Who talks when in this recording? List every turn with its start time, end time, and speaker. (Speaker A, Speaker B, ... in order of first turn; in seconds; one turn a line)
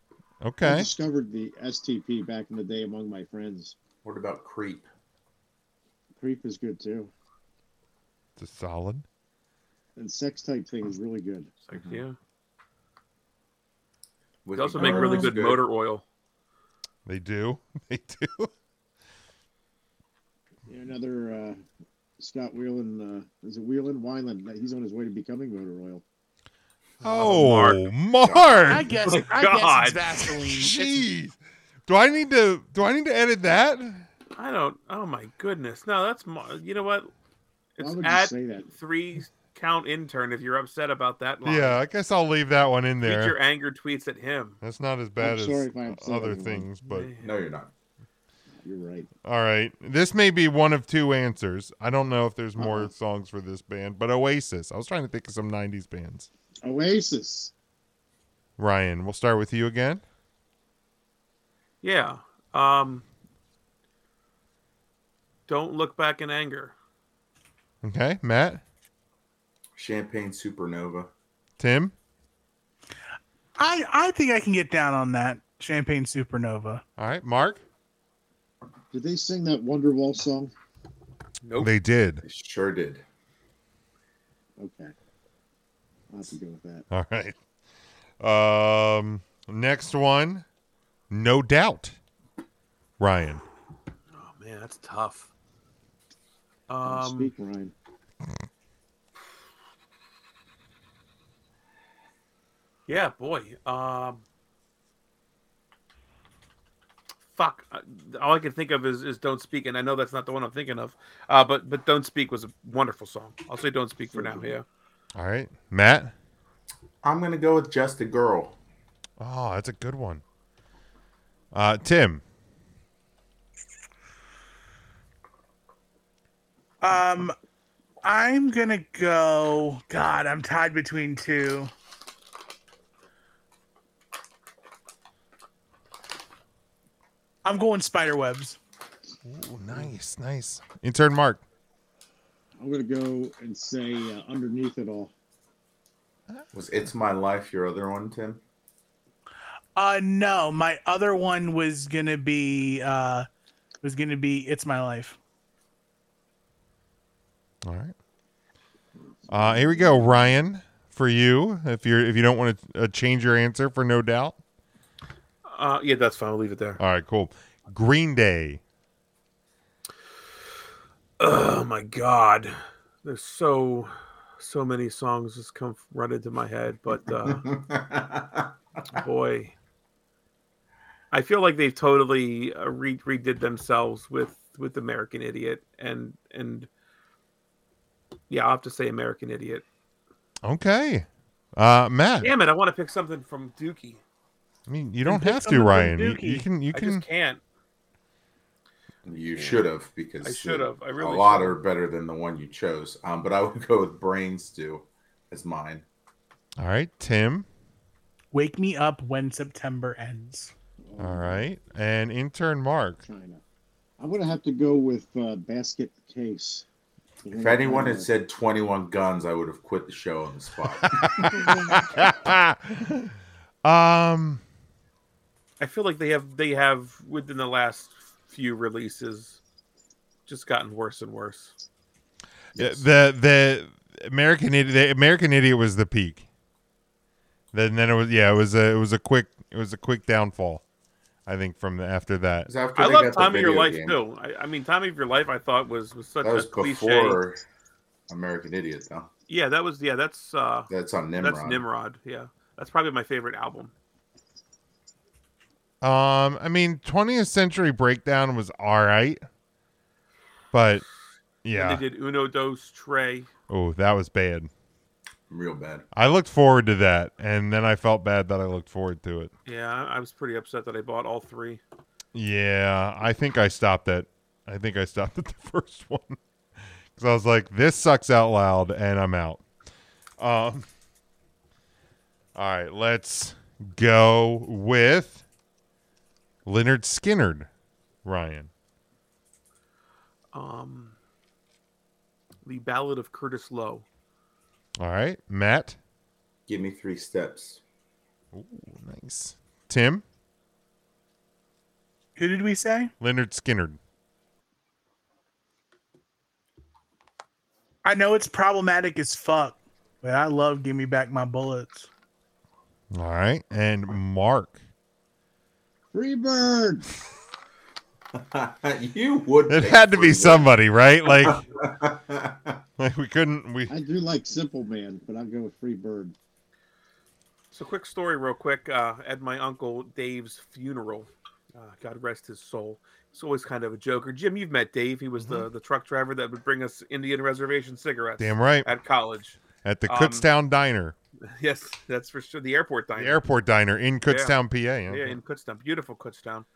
Speaker A: 0.4-0.9
Speaker B: 0.6-3.8
Speaker C: 4.0-4.8
Speaker B: 6.2-7.1
Speaker A: 8.4-9.0
Speaker B: 9.9-11.5
Speaker D: 11.7-12.2
Speaker C: 11.7-12.0
Speaker C: 14.4-15.6
Speaker D: 14.5-16.0
Speaker A: 17.1-18.5
Speaker B: 20.7-21.6
Speaker B: 22.2-26.0
Speaker D: 27.0-27.8
Speaker A: 27.0-28.9
Speaker C: 28.2-28.8
Speaker E: 28.7-30.8
Speaker D: 29.0-30.3
Speaker A: 30.5-34.1
Speaker D: 34.4-37.1
Speaker D: 37.8-41.8
Speaker B: 37.8-38.7
Speaker A: 41.4-43.4
Speaker D: 43.0-44.6
Speaker A: 44.6-47.1
Speaker B: 45.2-46.7
Speaker D: 46.8-47.3
Speaker C: 47.2-47.7
Speaker B: 48.6-49.1
Speaker A: 49.2-56.3
Speaker B: 52.6-52.9
Speaker B: 56.6-57.5
Speaker A: 58.6-60.0
Speaker D: 61.8-63.0
Speaker D: 65.5-66.7
Speaker A: 67.8-68.6
Speaker C: 69.8-71.1
Speaker A: 71.6-71.9
Speaker E: 73.6-76.8
Speaker A: 77.0-77.6
Speaker B: 78.9-80.5
Speaker D: 81.4-81.7
Speaker A: 81.6-82.2
Speaker C: 82.2-83.0
Speaker B: 84.6-84.9
Speaker B: 86.1-86.8
Speaker A: 86.9-87.3
Speaker A: 88.2-90.4
Speaker A: 91.1-92.0
Speaker A: 93.0-93.4
Speaker D: 94.1-95.3
Speaker D: 96.7-97.3
Speaker B: 96.8-97.7
Speaker D: 102.9-104.2
Speaker D: 107.3-114.6
Speaker B: 114.1-114.5
Speaker A: 115.1-116.1
Speaker C: 117.0-118.5
Speaker A: 119.2-120.2
Speaker A: 121.5-122.2
Speaker E: 126.8-127.3
Speaker E: 128.0-131.7
Speaker E: 137.4-138.6
Speaker A: 139.2-141.4
Speaker B: 142.6-145.1
Speaker C: 146.5-148.4
Speaker E: 149.8-153.3
Speaker E: 153.8-155.2
Speaker A: 157.6-157.9
Speaker B: 159.1-160.4
Speaker A: 159.3-164.4
Speaker D: 165.5-166.8
Speaker A: 166.8-168.6
Speaker D: 171.2-177.4
Speaker C: 177.2-178.5
Speaker D: 178.9-179.5
Speaker D: 181.1-186.7
Speaker D: 188.3-189.6
Speaker A: 190.4-192.3
Speaker D: 192.2-194.0
Speaker A: 194.7-197.0
Speaker E: 195.0-196.4
Speaker D: 196.7-197.4
Speaker C: 199.0-205.8
Speaker D: 199.2-199.6
Speaker D: 200.2-201.6
Speaker A: 206.6-207.5
Speaker E: 208.3-210.5
Speaker B: 210.8-211.4
Speaker A: 211.0-213.0
Speaker B: 213.0-213.4
Speaker B: 214.0-216.6
Speaker B: 217.2-218.1
Speaker C: 217.3-221.3
Speaker A: 220.9-224.4
Speaker D: 225.6-229.4
Speaker D: 230.3-231.5
Speaker A: 232.6-236.2
Speaker C: 232.6-232.8
Speaker A: 237.5-240.6
Speaker A: 241.2-242.5
Speaker C: 242.5-244.0
Speaker D: 242.8-247.2
Speaker C: 246.2-247.4
Speaker C: 248.1-249.1
Speaker D: 249.3-253.7
Speaker C: 250.7-251.6
Speaker A: 255.8-259.2
Speaker A: 260.5-260.8
Speaker A: 261.4-261.8
Speaker D: 261.5-263.3
Speaker A: 263.5-264.5
Speaker C: 265.3-265.8
Speaker A: 265.9-269.3
Speaker D: 269.4-271.6
Speaker A: 272.1-276.2
Speaker A: 276.9-279.4
Speaker A: 280.2-280.6
Speaker A: 282.3-285.2
Speaker A: 286.4-287.5
Speaker A: 288.0-288.5
Speaker D: 290.3-290.9
Speaker D: 292.4-293.9
Speaker A: 294.8-295.8
Speaker C: 296.5-297.6
Speaker A: 298.3-300.0
Speaker E: 302.1-302.9
Speaker A: 303.0-303.8
Speaker E: 307.8-311.9
Speaker A: 312.9-314.6
Speaker B: 315.9-316.9
Speaker C: 318.1-320.5
Speaker A: 319.5-321.4
Speaker C: 321.1-322.6
Speaker A: 322.8-323.7
Speaker B: 323.7-326.1
Speaker D: 327.5-340.3
Speaker A: 335.2-335.5
Speaker A: 338.2-338.7
Speaker A: 339.6-340.9
Speaker D: 341.2-343.2
Speaker A: 342.9-345.2
Speaker D: 344.0-344.4
Speaker D: 344.9-346.5